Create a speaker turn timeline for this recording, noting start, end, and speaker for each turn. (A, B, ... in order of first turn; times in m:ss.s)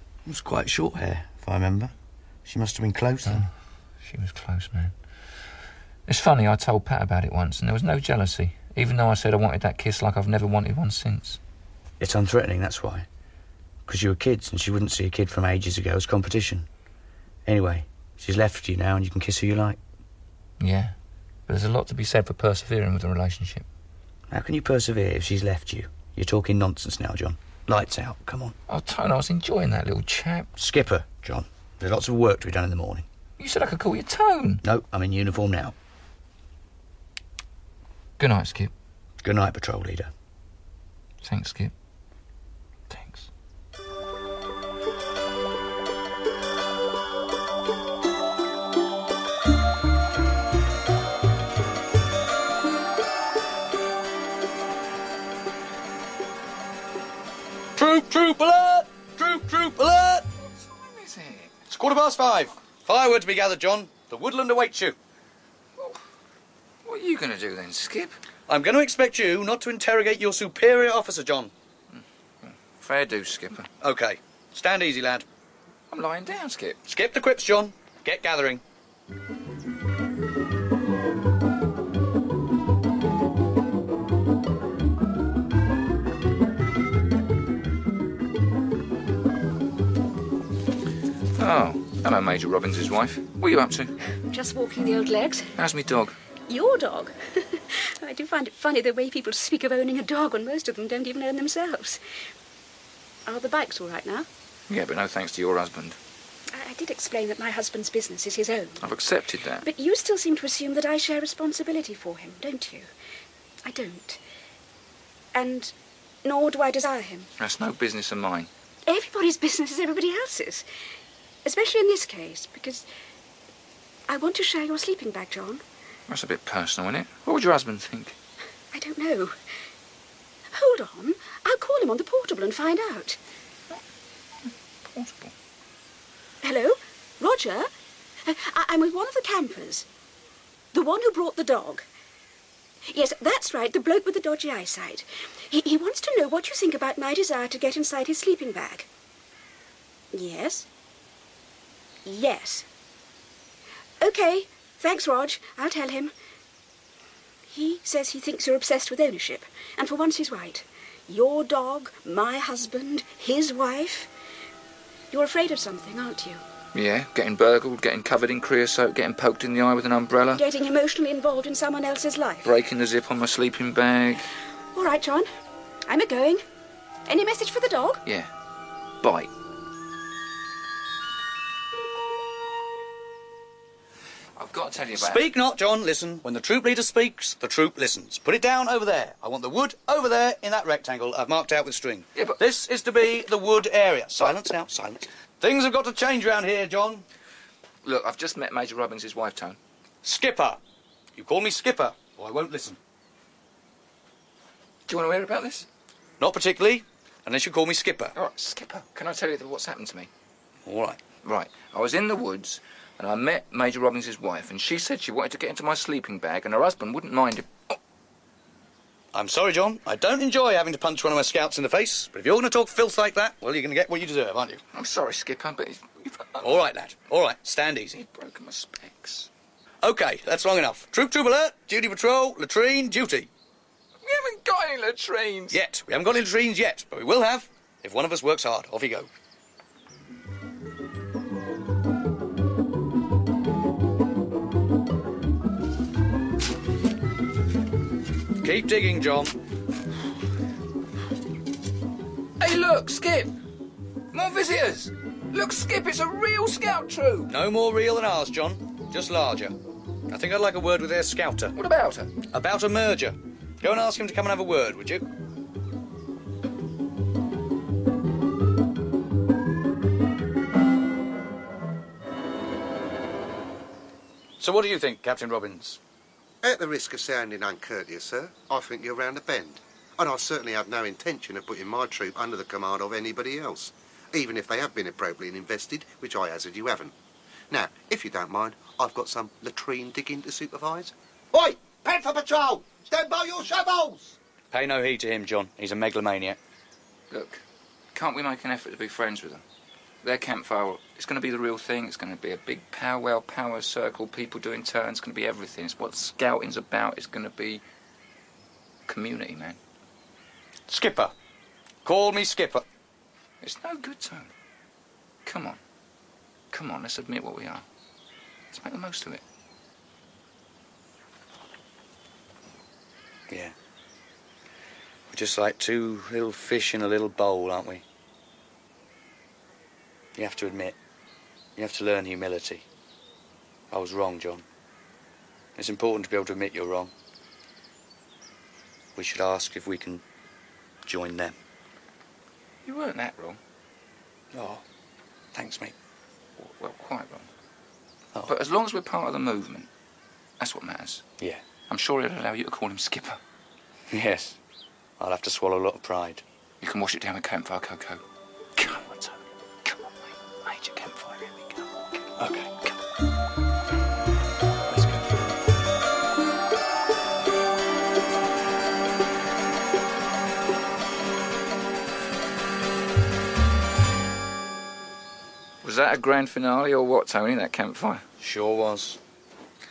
0:00.2-0:01.9 A
0:02.4-0:03.5 A
0:04.0-0:04.9 B
0:06.1-0:11.4 B
0:12.0-0:13.0 A
0:13.9-0:16.7 A
0:17.4-0:19.8 A
0:20.6-0:20.9 B
0:21.5-0:23.6 B
0:24.3-0:28.5 A
0:28.7-0:30.5 B
0:30.6-0:33.0 A
0:33.4-0:34.6 B
0:34.6-0:35.7 A
0:38.2-0:38.7 B
0:39.2-0:40.1 A
0:41.2-0:41.7 B
0:42.9-0:43.3 B
0:57.8-1:00.3 A
1:00.4-1:01.5 B
1:01.7-1:05.0 A
1:06.8-1:08.2 B
1:08.5-1:11.5 A
1:11.9-1:13.7 B
1:13.8-1:15.2 A
1:15.9-1:16.8 B
1:16.8-1:18.6 A
1:31.4-1:33.9 B
1:34.3-1:35.5 C
1:35.6-1:36.2 B
1:36.5-1:42.0 C
1:43.2-1:44.3 C
1:44.7-1:46.0 B
1:46.5-1:48.9 C
1:48.8-1:49.6 B
1:49.6-1:52.9 C
1:53.6-1:54.2 C
1:55.3-1:57.3 C
1:57.4-1:58.5 B
1:58.9-2:00.6 C
2:01.4-2:02.8 C
2:04.1-2:05.6 C
2:06.1-2:08.1 B
2:08.7-2:09.4 C
2:10.5-2:13.2 C
2:14.4-2:15.3 B
2:16.4-2:17.7 C
2:18.2-2:19.8 C
2:20.7-2:21.8 C
2:22.8-2:28.9 C
2:30.1-2:30.7 C
2:32.0-2:32.7 C
2:34.0-2:36.1 C
2:37.5-2:44.1 C
2:45.1-2:46.4 C
2:46.7-2:50.4 B
2:50.3-2:52.5 C
2:52.4-2:54.3 B
2:54.7-2:55.3 C
2:55.9-2:56.4 C
2:57.1-2:58.0 C
2:59.0-2:59.3 B
3:04.4-3:05.3 B
3:05.0-3:17.0 A
3:17.8-3:19.6 B
3:20.0-3:20.6 A
3:21.2-3:22.8 A
3:24.9-3:25.6 B
3:26.2-3:28.1 A
3:28.2-3:30.1 B
3:30.6-3:31.0 A
3:31.2-3:37.8 B
3:39.1-3:44.6 A
3:44.7-3:46.6 B
3:46.4-3:48.0 A
3:48.0-3:49.3 B
3:49.8-3:53.3 A
3:54.0-3:55.6 B
3:55.5-3:59.1 A
4:08.4-4:09.3 A
4:12.4-4:13.3 B
4:14.1-4:17.3 B
4:17.3-4:19.5 A
4:20.1-4:21.5 A
4:21.6-4:22.1 B
4:22.3-4:25.0 A
4:34.4-4:35.8 A
4:36.4-4:46.9 D
4:47.5-4:54.2 D
4:54.5-4:56.4 A
4:57.1-4:57.4 B
4:57.9-4:59.4 B
5:00.0-5:07.6 B
5:08.9-5:09.6 B
5:10.7-5:11.1 A
5:11.8-5:12.6 A
5:13.4-5:14.3 B
5:15.2-5:15.6 B
5:16.5-5:17.6 B
5:18.5-5:19.2 B
5:23.3-5:23.5 A
5:25.1-5:27.8 A
5:30.2-5:30.8 A
5:31.6-5:32.6 A
5:33.7-5:34.4 A
5:35.6-5:36.9 A
5:39.0-5:40.0 A
5:40.8-5:41.4 A
5:42.6-5:43.4 B
5:44.3-5:44.6 A
5:45.3-5:45.7 A
5:46.4-5:47.3 B
5:48.3-5:49.7 B
5:50.4-5:51.0 B
5:51.7-5:53.2 B
5:53.9-5:54.4 A
5:55.0-5:56.2 A
5:56.6-5:58.0 B
5:58.6-6:01.7 B
6:02.2-6:02.6 A
6:04.7-6:05.0 A
6:15.6-6:18.0 B
6:18.2-6:19.0 A